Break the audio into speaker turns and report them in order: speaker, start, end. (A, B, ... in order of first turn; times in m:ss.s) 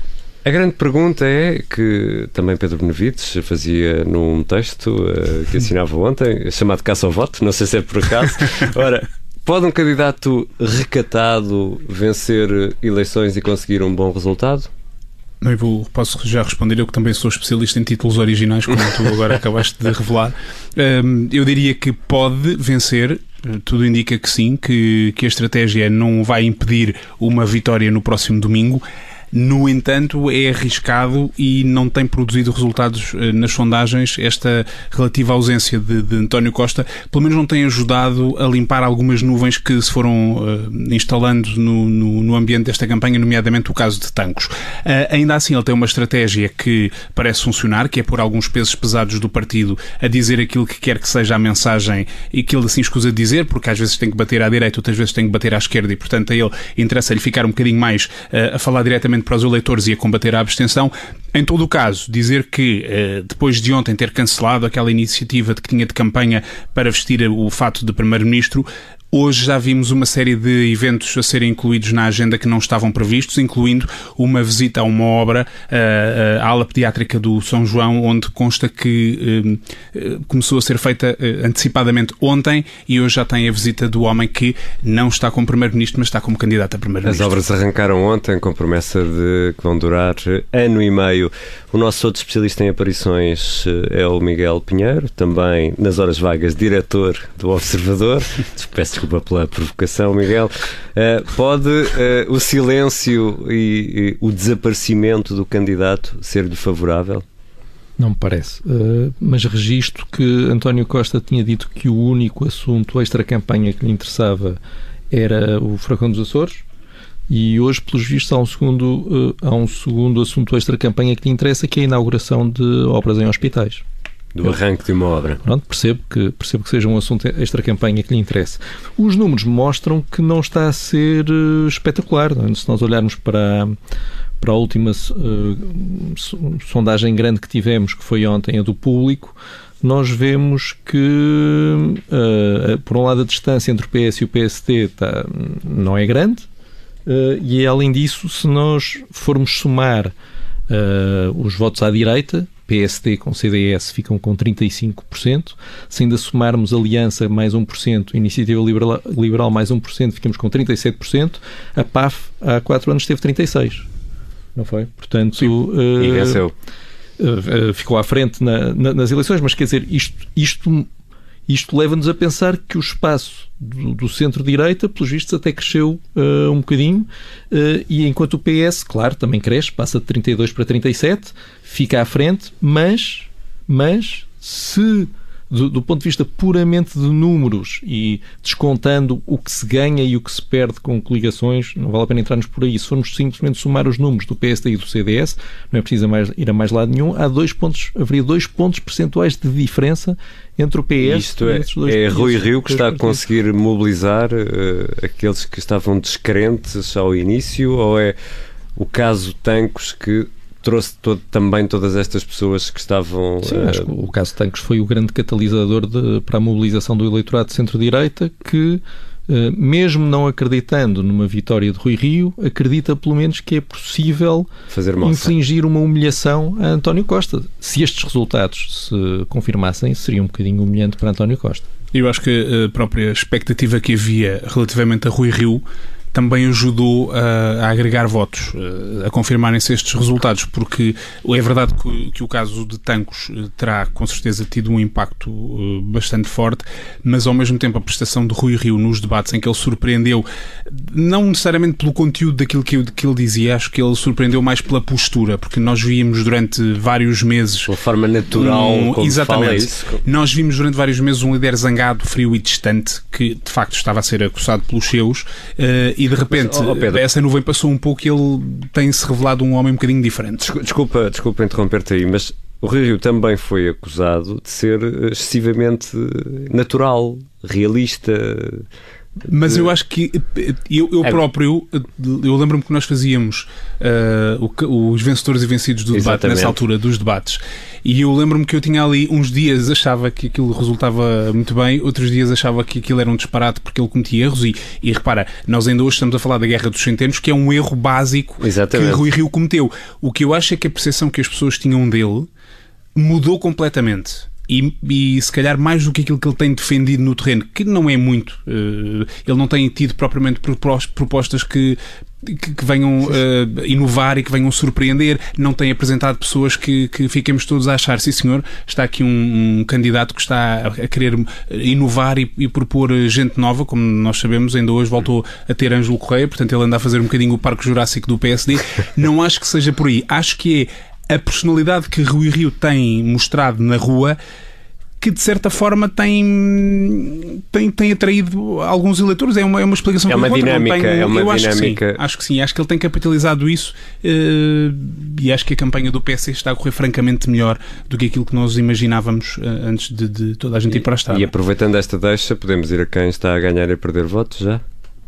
0:00.4-0:14.7 A
0:15.4-1:27.4 B
1:27.0-1:47.2 A
1:48.0-1:54.6 C
1:55.1-1:56.6 C
1:57.3-2:03.8 C
2:04.4-2:05.4 A
2:05.4-2:13.8 C
2:14.4-2:26.5 C
2:27.1-2:30.1 C
2:30.7-2:43.9 C
2:44.6-2:46.4 C
2:45.4-2:46.5 A
2:47.2-2:50.9 C
2:51.5-3:23.3 C
3:21.0-3:28.2 A
3:28.8-3:33.9 A
3:33.5-3:44.5 C
3:44.7-3:45.3 A
3:45.0-3:51.7 C
3:51.9-4:17.7 B
4:17.7-4:20.0 A
4:18.3-4:30.4 B
4:26.3-4:27.0 A
4:30.4-4:38.6 A
4:39.3-5:02.3 B
4:45.9-4:46.6 A
4:58.4-4:59.1 A
5:03.0-5:34.2 B
5:35.0-5:51.3 B
5:40.1-5:42.0 A
5:51.1-5:54.6 A